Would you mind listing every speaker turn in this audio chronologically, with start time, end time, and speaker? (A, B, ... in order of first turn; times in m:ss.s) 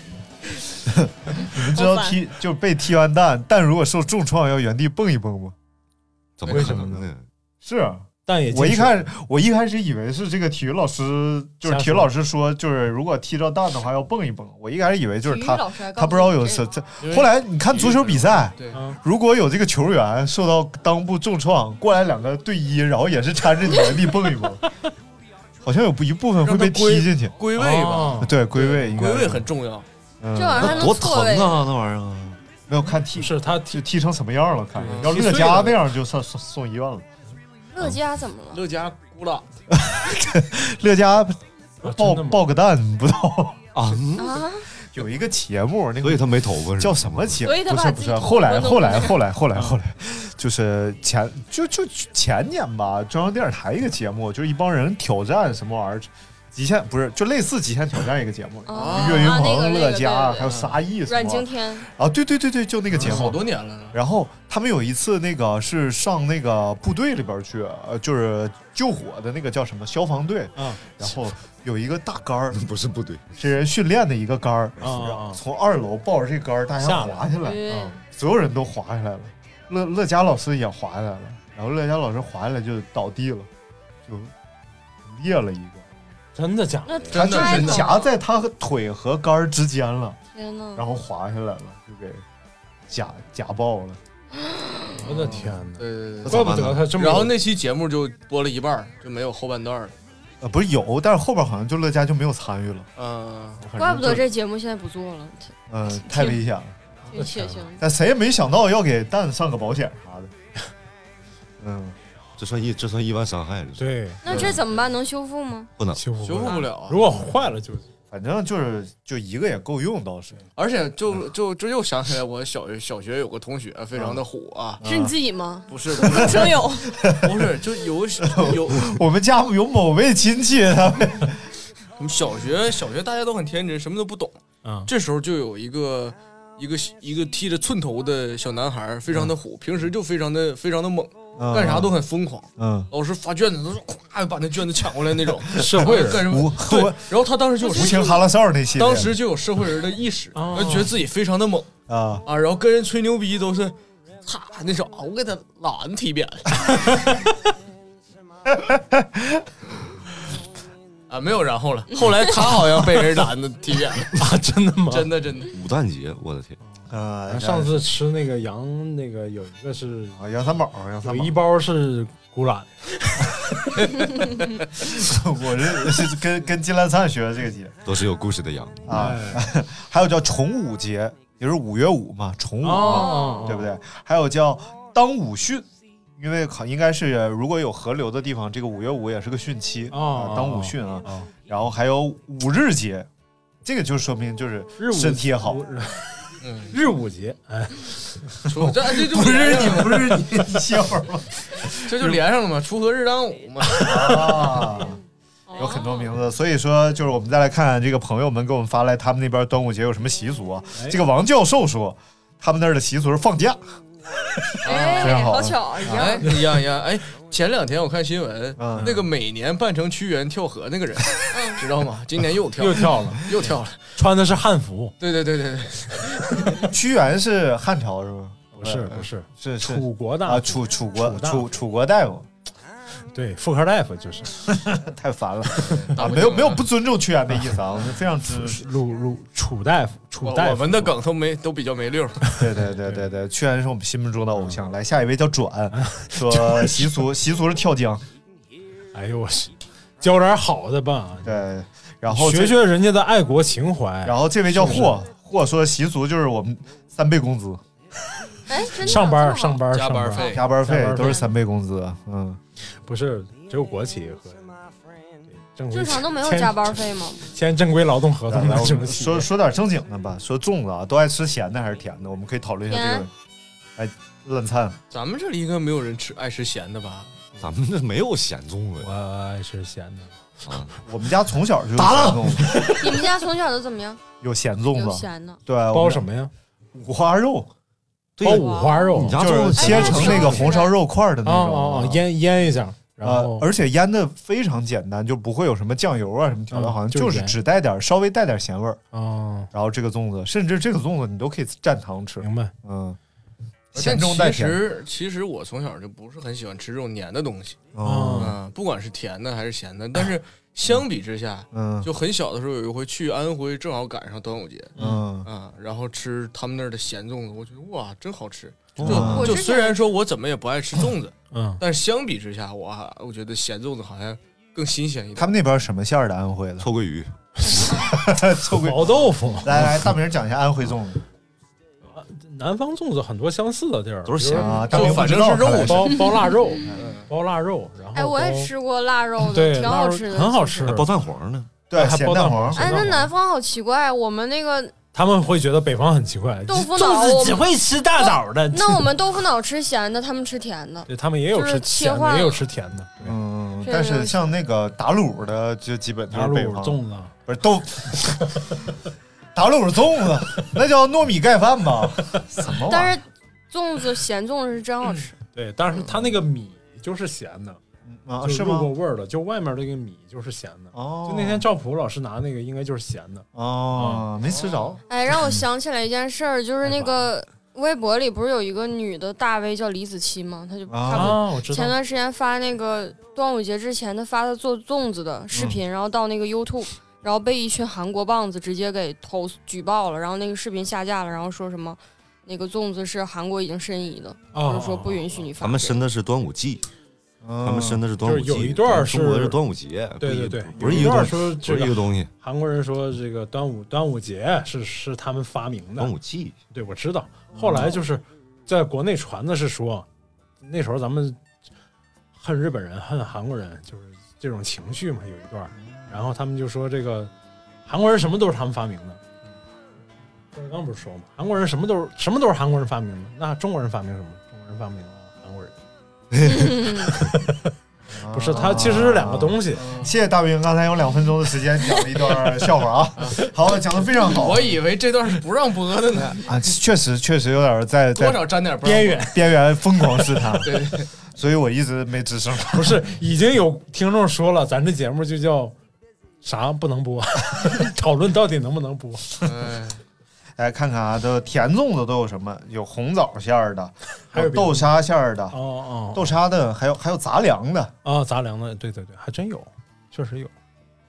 0:00.8-0:05.5 A
0:01.6-0:02.2 B
0:06.4-0:07.2 C
0:06.4-0:06.8 D
0:06.5-0:07.1 E
0:07.6-0:24.6 A
0:08.2-0:09.1 E
0:11.6-0:12.1 E
0:15.2-0:16.6 B
0:17.0-0:18.8 D
0:18.7-0:19.0 E
0:25.6-0:27.4 A
0:26.4-0:29.9 D
0:27.6-0:28.3 E
0:28.2-0:29.5 A
0:30.2-0:30.9 A
0:30.4-0:31.6 B
0:30.5-0:32.4 C
0:32.7-0:37.0 A
0:33.2-0:33.8 E
0:34.8-0:35.8 E
0:34.8-0:35.1 D
0:37.7-0:38.6 B
0:38.5-0:39.4 D
0:39.7-0:43.6 A
0:41.8-0:42.5 E
0:43.7-0:44.4 C
0:44.2-0:44.7 B
0:44.9-1:03.4 A
0:46.0-0:47.4 C
0:47.4-0:49.2 B
0:58.7-1:00.5 B
0:58.7-0:59.5 D
1:00.4-1:00.8 D
1:01.0-1:01.8 B
1:02.9-1:03.3 E
1:03.0-1:04.0 D
1:03.9-1:12.6 A
1:10.6-1:10.8 E
1:12.5-1:13.3 C
1:13.4-1:23.5 A
1:14.8-1:15.4 E
1:16.8-1:18.0 E
1:17.4-1:18.0 B
1:24.1-1:24.3 A
1:25.0-1:25.8 A
1:26.4-1:27.2 E
1:26.8-1:28.1 B
1:27.1-1:27.9 D
1:27.1-1:30.2 A
1:30.3-1:30.8 B
1:30.8-1:32.2 A
1:32.9-1:34.0 A
1:34.4-1:35.0 B
1:35.0-1:37.4 E
1:35.8-1:39.9 D
1:36.2-1:36.9 C
1:40.4-1:42.9 A
1:43.0-1:43.6 D
1:43.6-1:44.2 A
1:43.8-1:46.4 B
1:45.7-1:46.8 A
1:47.1-1:47.8 B
1:47.1-1:47.7 E
1:47.8-1:50.3 A
1:51.6-1:52.0 A
1:52.4-1:54.4 C
1:53.8-1:54.5 E
1:54.2-1:55.7 B
1:54.3-1:54.6 A
1:55.8-1:56.0 C
1:56.0-1:57.8 E
1:56.2-1:57.0 D
1:58.1-2:00.4 A
2:00.6-2:04.8 D
2:04.0-2:04.2 A
2:04.8-2:05.1 A
2:04.8-2:06.9 B
2:05.7-2:09.0 D
2:06.0-2:07.5 A
2:08.2-2:11.5 A
2:12.0-2:14.3 D
2:14.9-2:31.7 D
2:21.4-2:21.9 A
2:22.6-2:22.9 A
2:25.5-2:26.2 E
2:25.7-2:27.1 A
2:27.6-2:29.2 A
2:30.3-2:30.9 E
2:31.9-2:32.2 A
2:32.2-2:33.7 D
2:34.2-2:37.0 D
2:36.9-2:37.2 E
2:38.5-2:39.4 A
2:41.1-2:44.2 D
2:44.2-2:45.1 E
2:44.9-2:45.5 D
2:45.5-2:46.6 C
2:46.9-2:47.8 A
2:47.3-2:50.2 E
2:50.2-2:51.3 A
2:51.0-2:53.9 E
2:54.8-2:57.8 A
2:57.8-2:58.9 C
2:58.8-3:13.1 A
2:58.9-2:59.4 E
3:02.6-3:03.7 E
3:02.8-3:03.5 B
3:09.9-3:11.3 E
3:13.6-3:15.6 A
3:14.8-3:16.1 E
3:16.4-3:16.7 D
3:16.7-3:18.3 E
3:18.4-3:22.2 A
3:18.5-3:20.2 D
3:21.8-3:24.6 D
3:23.8-3:25.0 A
3:25.5-3:26.1 B
3:25.6-3:33.8 A
3:30.7-3:31.0 E
3:34.4-3:36.2 A
3:34.6-3:36.3 B
3:34.6-3:35.2 D
3:35.9-3:43.9 D
3:38.6-3:39.0 A
3:41.3-3:41.6 B
3:42.6-3:43.3 E
3:43.9-3:44.9 E
3:45.0-3:46.7 D
3:46.6-3:52.3 A
3:48.5-3:51.5 E
3:53.1-3:54.4 E
3:54.5-3:58.6 A
3:55.6-3:56.7 D
3:58.3-4:00.9 E
4:00.2-4:02.4 D
4:02.4-4:08.0 A
4:02.6-4:03.1 E
4:05.7-4:07.0 E
4:08.9-4:11.4 E
4:11.2-4:12.6 A
4:12.1-4:15.0 E
4:14.0-4:17.6 A
4:18.5-4:19.6 B
4:18.8-4:21.3 E
4:19.7-4:20.4 D
4:20.3-4:22.4 A
4:22.8-4:24.6 E
4:25.3-4:29.3 E
4:25.7-4:27.3 B
4:28.3-4:33.1 A
4:32.7-4:33.1 B
4:33.8-4:34.8 A
4:34.9-4:37.2 D
4:37.4-4:38.9 C
4:38.8-4:40.2 E
4:40.4-4:40.7 C
4:40.8-4:42.6 A
4:41.7-4:43.0 C
4:42.8-4:44.0 B
4:44.2-4:46.1 A
4:44.7-4:45.4 B
4:45.7-4:46.3 E
4:46.7-4:47.5 A
4:48.2-4:50.5 C
4:48.2-4:50.5 E
4:48.2-4:50.8 B
4:49.1-4:52.1 A
4:51.2-4:53.5 E
4:53.0-4:58.8 A
4:56.5-4:57.4 E
4:58.9-4:59.5 E
4:59.5-5:03.0 A
5:02.2-5:02.5 E
5:03.7-5:04.6 A
5:03.7-5:07.6 D
5:07.7-5:08.3 A
5:07.8-5:08.4 E
5:08.2-5:25.3 D
5:11.5-5:11.9 A
5:14.8-5:15.0 E
5:14.8-5:15.3 A
5:18.8-5:19.3 C
5:18.8-5:19.4 A
5:19.1-5:19.8 B
5:21.3-5:21.6 E
5:25.2-5:26.7 A
5:26.6-5:27.1 C
5:27.5-5:27.8 E
5:27.6-5:31.0 A
5:28.5-5:29.6 E
5:31.9-5:38.5 E
5:34.0-5:34.8 C
5:34.3-5:35.9 A
5:34.7-5:35.9 D
5:36.0-5:36.5 B
5:36.8-5:37.0 D
5:37.9-5:40.8 B
5:39.3-5:40.9 E
5:40.6-5:41.5 C
5:41.7-5:42.8 A
5:41.7-5:43.1 E
5:42.5-5:44.7 B
5:44.9-5:48.8 E
5:46.5-5:47.4 B
5:48.0-5:52.4 B
5:50.9-5:53.2 E
5:53.0-5:58.5 A
5:53.6-5:54.2 B
5:56.1-5:57.1 E
5:59.3-6:03.0 A
6:02.6-6:05.1 B
6:05.3-6:07.6 E
6:07.8-6:08.7 A
6:08.2-6:14.0 E
6:10.7-6:11.4 A
6:13.3-6:15.4 A
6:14.2-6:14.8 D
6:14.9-6:35.8 B
6:16.6-6:17.0 E
6:20.7-6:21.2 A
6:20.9-6:21.8 E
6:25.3-6:25.6 A
6:34.3-6:35.2 E
6:35.4-6:36.6 C
6:37.2-6:37.8 A
6:37.4-6:42.1 C
6:38.0-6:39.4 E
6:40.0-6:45.9 E
6:40.6-6:41.1 A
6:45.8-6:46.4 C
6:46.5-6:49.8 E
6:47.3-6:47.8 A
6:50.4-6:51.2 E
6:52.2-6:57.1 E
6:55.6-6:56.0 A
6:57.6-6:59.0 E
7:00.3-7:05.6 E
7:06.1-7:07.1 C
7:06.8-7:07.4 E
7:07.9-7:14.6 A
7:08.1-7:09.6 E
7:09.5-7:09.9 D
7:14.1-7:16.3 D
7:16.2-7:22.9 A
7:18.0-7:19.1 D
7:18.6-7:19.2 E
7:20.4-7:20.9 D
7:22.5-7:25.5 E
7:26.2-7:29.2 E
7:29.2-7:29.8 D
7:30.4-7:35.4 A
7:34.1-7:34.7 E
7:35.3-7:36.2 E
7:35.9-7:37.7 A
7:37.8-7:40.3 E